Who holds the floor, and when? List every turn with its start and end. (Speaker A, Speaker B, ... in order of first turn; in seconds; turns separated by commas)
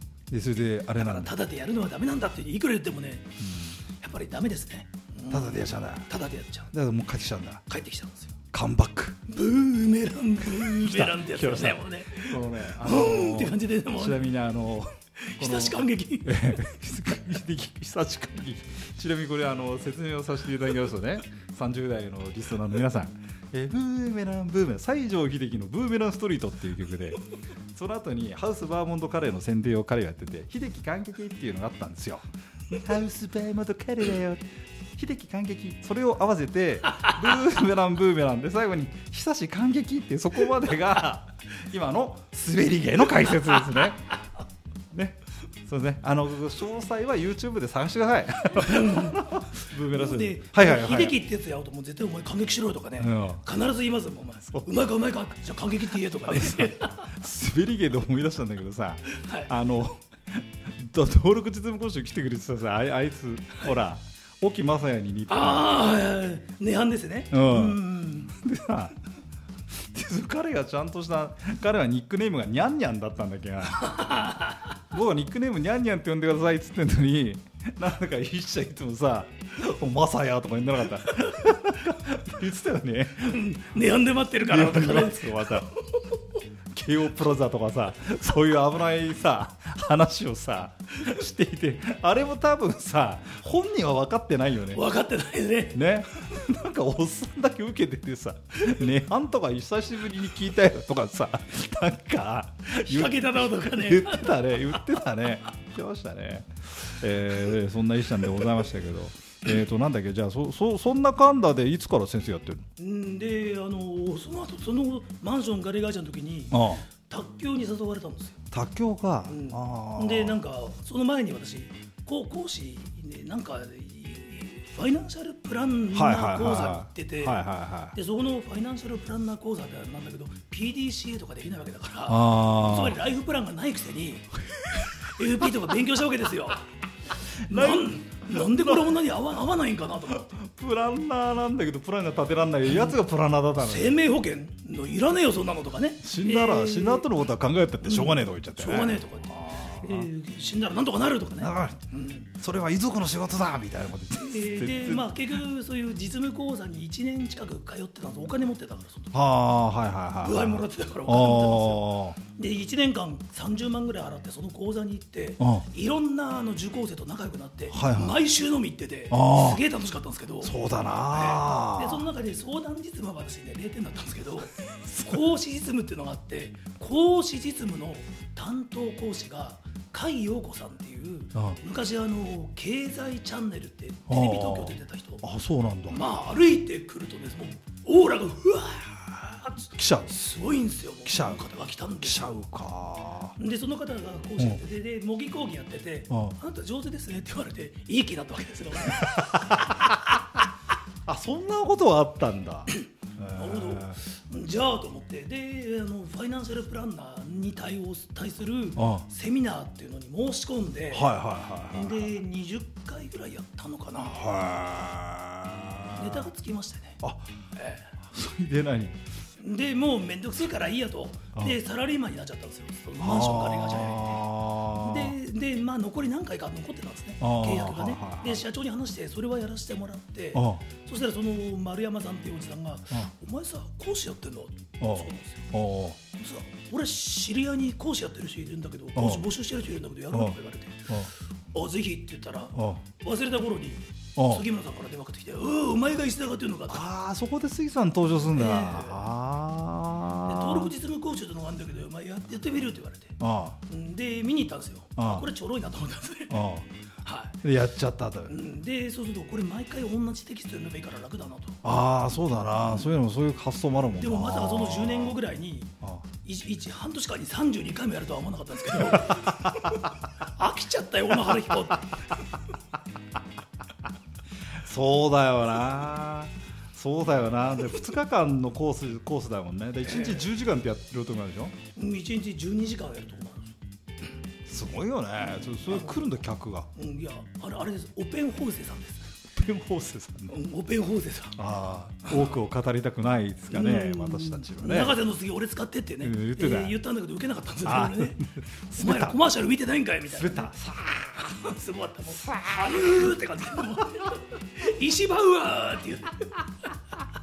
Speaker A: 0.3-1.3, Speaker B: 1.0-6.7, Speaker A: 3.4-3.8, Speaker A: 5.3-6.1, Speaker A: 6.7-7.6, Speaker B: 7.7-8.3, Speaker A: 8.5-9.2, Speaker B: 9.3-14.2, Speaker A: 10.4-27.2, Speaker B: 15.2-16.6, Speaker A: 27.7-44.2, Speaker B: 43.5-43.9, Speaker A: 44.9-51.2, Speaker B: 48.6-57.1, Speaker A: 53.0-53.4, Speaker A: 56.3-65.8, Speaker B: 59.1-59.5, Speaker B: 65.3-68.3, Speaker A: 67.3-69.0, Speaker A: 69.7-74.3, Speaker B: 73.8-74.6, Speaker A: 74.9-83.5, Speaker B: 83.3-86.2, Speaker A: 84.4-85.7, Speaker A: 86.7-94.8, Speaker B: 94.7-95.8, Speaker A: 95.7-112.7, Speaker B: 102.7-105.1, Speaker B: 112.8-118.4, Speaker A: 116.5-116.9, Speaker A: 118.5-120.4, Speaker B: 119.3-136.7, Speaker A: 125.9-128.0, Speaker A: 132.1-133.0, Speaker A: 137.4-139.0, Speaker B: 137.4-140.3, Speaker A: 140.1-144.0, Speaker B: 143.6-147.1, Speaker A: 146.0-150.1, Speaker B: 147.8-152.3, Speaker A: 151.4-151.8, Speaker A: 152.3-155.4, Speaker B: 154.2-159.1, Speaker A: 159.1-162.2, Speaker B: 160.2-170.6, Speaker A: 165.4-165.7, Speaker A: 167.7-168.2, Speaker A: 169.1-169.6, Speaker A: 170.4-172.1, Speaker B: 171.1-185.2, Speaker A: 174.9-175.2, Speaker A: 184.1-186.0, Speaker B: 185.9-192.4, Speaker A: 189.8-190.1, Speaker A: 191.1-193.4, Speaker B: 193.4-199.8, Speaker A: 196.1-196.4, Speaker A: 198.9-200.1, Speaker A: 201.1-204.0, Speaker B: 203.3-211.1, Speaker A: 208.8-209.1, Speaker A: 210.9-212.1, Speaker B: 211.7-214.2, Speaker A: 214.0-216.3, Speaker B: 215.9-217.0, Speaker A: 217.0-217.3, Speaker B: 217.6-217.9, Speaker A: 218.0-219.0, Speaker B: 219.4-224.2, Speaker A: 223.0-225.2, Speaker B: 224.8-235.5, Speaker A: 227.2-228.4, Speaker A: 230.3-230.6, Speaker A: 234.8-236.0, Speaker B: 236.1-246.9, Speaker A: 238.9-239.3, Speaker A: 240.1-240.4, Speaker A: 242.6-242.8, Speaker A: 244.2-244.4, Speaker A: 246.7-250.7, Speaker B: 248.3-249.0, Speaker B: 250.3-256.4, Speaker A: 253.2-253.6, Speaker A: 255.0-255.3, Speaker A: 256.3-256.7, Speaker B: 257.0-257.4, Speaker A: 257.4-258.4, Speaker B: 258.3-261.6, Speaker A: 261.6-265.2, Speaker B: 264.0-269.4, Speaker A: 268.9-269.5, Speaker B: 270.2-272.2, Speaker A: 274.5-281.6, Speaker B: 279.8-280.3, Speaker B: 281.8-283.6, Speaker A: 284.5-286.7, Speaker B: 285.2-286.2, Speaker B: 286.8-289.2, Speaker A: 289.4-290.4, Speaker B: 290.3-291.4, Speaker A: 291.4-295.0, Speaker B: 293.5-298.2, Speaker A: 296.0-296.8, Speaker A: 297.6-299.2, Speaker B: 298.7-300.5, Speaker A: 300.1-301.4, Speaker B: 301.1-306.7, Speaker A: 302.2-303.1